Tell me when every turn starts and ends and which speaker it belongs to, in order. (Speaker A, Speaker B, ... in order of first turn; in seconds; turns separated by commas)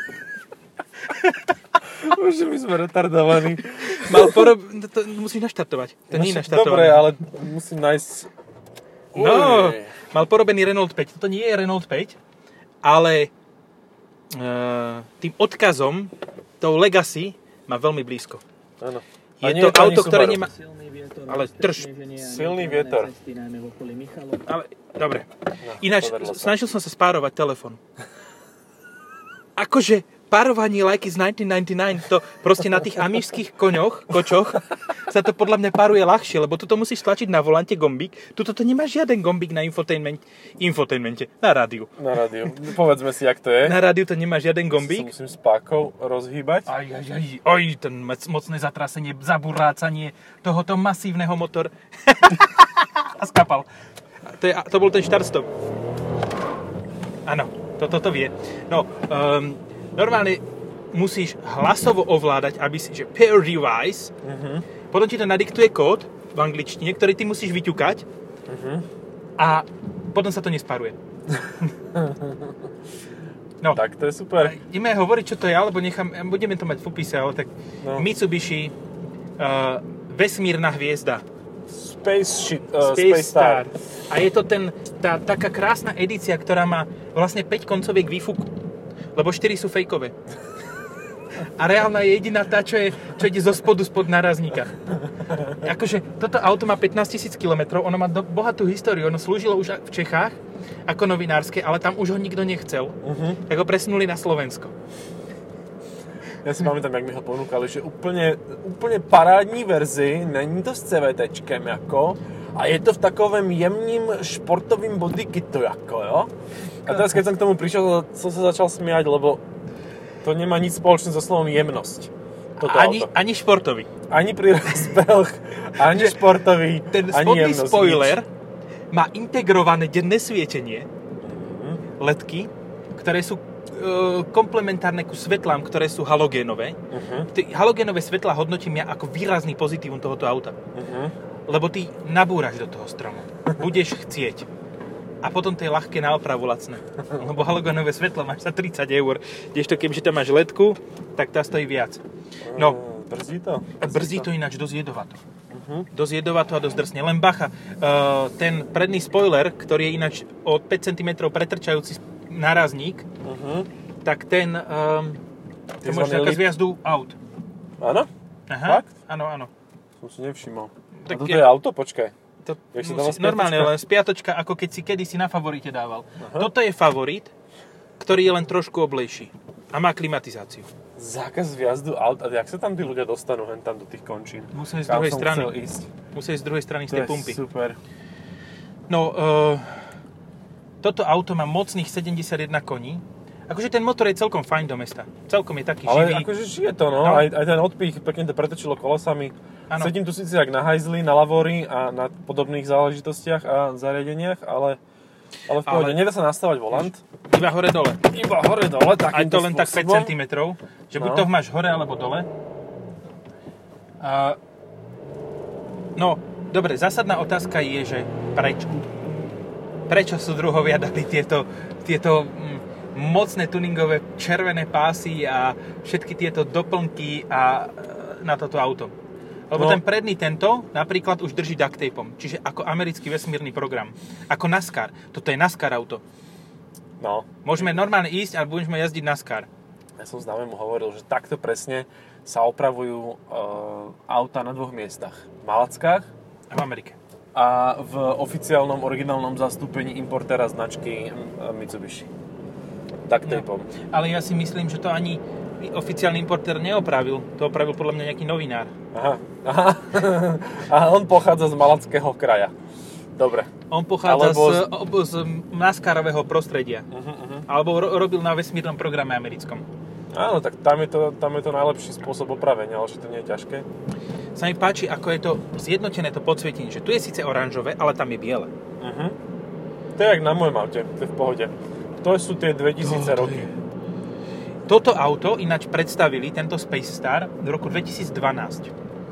Speaker A: 1.9-4.4, Speaker B: 3.8-7.1, Speaker A: 6.1-8.3, Speaker A: 9.1-9.9, Speaker B: 9.2-12.2, Speaker B: 12.8-13.3, Speaker B: 14.3-18.4, Speaker A: 18.8-20.5, Speaker B: 19.4-20.5, Speaker C: 20.3-24.5, Speaker B: 21.2-21.9, Speaker A: 22.2-23.1, Speaker B: 24.4-27.8, Speaker A: 25.6-26.6, Speaker B: 29.6-41.9, Speaker A: 42.0-43.8, Speaker B: 43.6-45.1, Speaker A: 44.7-46.7, Speaker B: 46.6-53.7, Speaker B: 54.2-55.5, Speaker B: 57.2-64.1, Speaker A: 64.2-64.7, Speaker B: 64.9-68.0, Speaker A: 68.5-68.8, Speaker B: 69.4-71.0, Speaker A: 71.9-72.5, Speaker A: 73.7-74.5, Speaker B: 74.4-78.7, Speaker A: 77.8-78.1, Speaker B: 79.4-81.2, Speaker A: 81.7-83.7, Speaker B: 82.8-88.5, Speaker B: 89.1-90.1, Speaker B: 91.4-94.8, Speaker B: 95.4-103.0, Speaker A: 103.0-103.4, Speaker B: 103.5-104.7, Speaker A: 106.4-116.3, Speaker A: 116.8-119.4, Speaker A: 120.2-123.1, Speaker B: 122.6-123.9, Speaker A: 124.1-128.2, Speaker B: 125.8-126.2, Speaker B: 126.8-128.3, Speaker B: 128.9-130.9, Speaker A: 131.2-131.8, Speaker B: 132.0-136.8, Speaker A: 136.9-137.3, Speaker B: 137.3-140.6, Speaker A: 140.7-141.1, Speaker B: 141.5-144.4, Speaker B: 145.2-152.0, Speaker A: 152.4-154.3, Speaker B: 152.5-152.8, Speaker B: 153.8-155.2, Speaker A: 155.5-155.9, Speaker B: 155.9-163.1, Speaker A: 163.2-163.7, Speaker B: 164.0-165.2, Speaker A: 165.8-166.5, Speaker B: 165.8-167.2, Speaker A: 167.8-168.1, Speaker B: 168.5-169.5, Speaker A: 168.6-168.9, Speaker A: 170.0-172.1, Speaker B: 171.0-171.5, Speaker B: 172.4-177.3, Speaker A: 172.7-173.7, Speaker A: 176.2-176.5, Speaker B: 178.0-180.7, Speaker A: 180.9-185.9, Speaker B: 184.5-185.5, Speaker B: 186.1-187.4, Speaker A: 186.9-187.8, Speaker B: 188.9-189.9, Speaker B: 190.8-196.3, Speaker A: 195.8-204.8, Speaker A: 205.5-207.0, Speaker B: 205.6-206.0, Speaker B: 207.3-208.1, Speaker A: 208.1-210.1, Speaker B: 209.1-212.3, Speaker A: 210.9-211.3, Speaker B: 214.0-214.4, Speaker B: 215.9-218.9, Speaker B: 219.9-228.9, Speaker B: 229.5-236.0, Speaker A: 229.5-229.8, Speaker A: 237.0-237.8, Speaker B: 237.4-239.5, Speaker A: 240.0-246.1, Speaker B: 246.5-246.9, Speaker A: 247.3-252.1, Speaker A: 253.1-253.7, Speaker B: 253.2-258.7, Speaker A: 258.9-262.5, Speaker A: 263.1-263.5, Speaker B: 263.7-266.9, Speaker A: 264.0-264.7, Speaker A: 266.9-267.5, Speaker B: 267.5-269.6, Speaker A: 270.1-273.6, Speaker B: 274.4-278.5, Speaker A: 278.8-279.1, Speaker A: 279.9-283.5, Speaker B: 282.8-283.5, Speaker B: 284.7-288.7